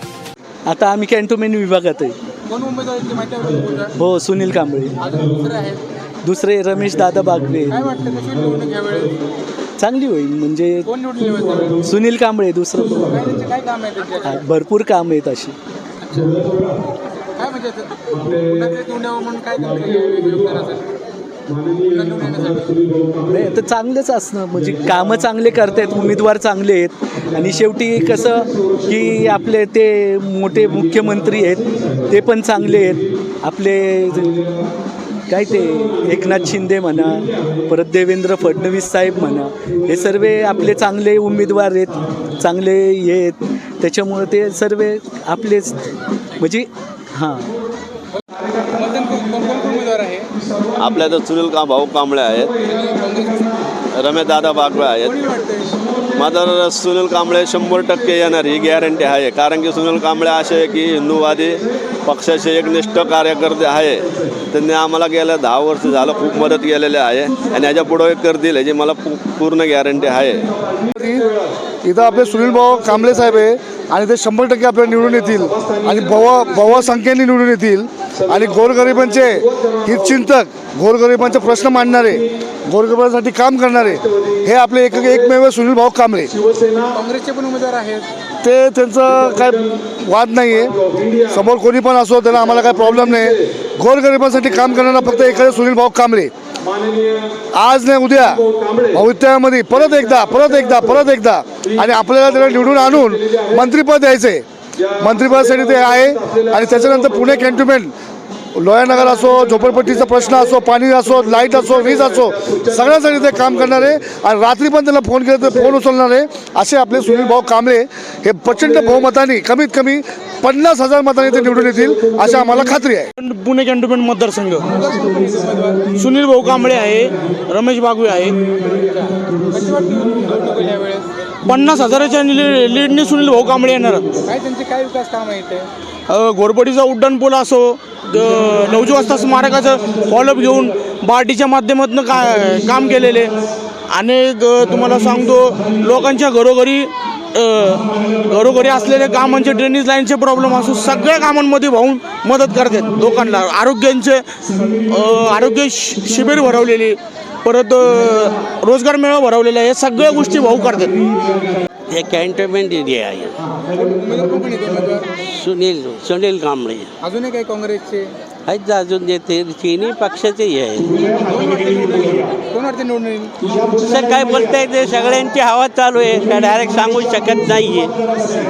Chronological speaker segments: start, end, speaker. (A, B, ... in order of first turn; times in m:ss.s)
0:00.7-0:02.1 A
0:02.5-0:03.9 B
0:04.0-0:05.0 A
0:05.0-0:05.8 B
0:06.2-0:07.7 A
0:07.7-0:09.2 B
0:09.8-0:10.8 A
0:10.8-0:11.8 B
0:11.8-0:13.2 A
0:13.1-0:14.4 B
0:14.2-0:15.6 A
0:16.0-0:16.4 B
0:17.4-0:20.8 B
0:21.8-0:22.9 B
0:23.2-0:34.4 A
0:35.3-0:47.4 A
0:48.2-0:50.3 B
0:50.8-0:52.6 C
0:52.7-0:53.6 B
0:54.0-0:55.3 C
0:55.0-0:55.7 B
0:56.1-1:10.5 C
1:10.9-1:11.3 D
1:11.8-1:26.3 D
1:26.9-1:28.1 B
1:28.4-1:36.3 D
1:37.5-1:44.4 D
1:45.0-1:47.9 D
1:48.5-2:03.1 D
2:03.2-2:04.7 E
2:04.7-2:05.9 B
2:05.9-2:08.4 E
2:08.4-2:11.1 B
2:11.4-2:14.2 E
2:14.2-2:15.7 B
2:16.1-2:23.3 E
2:23.9-2:34.2 E
2:34.9-2:41.0 E
2:41.9-2:43.3 F
2:43.7-2:45.1 B
2:45.3-2:46.9 F
2:47.0-2:48.1 B
2:48.4-2:51.1 F
2:51.2-2:53.3 B
2:53.5-2:57.9 F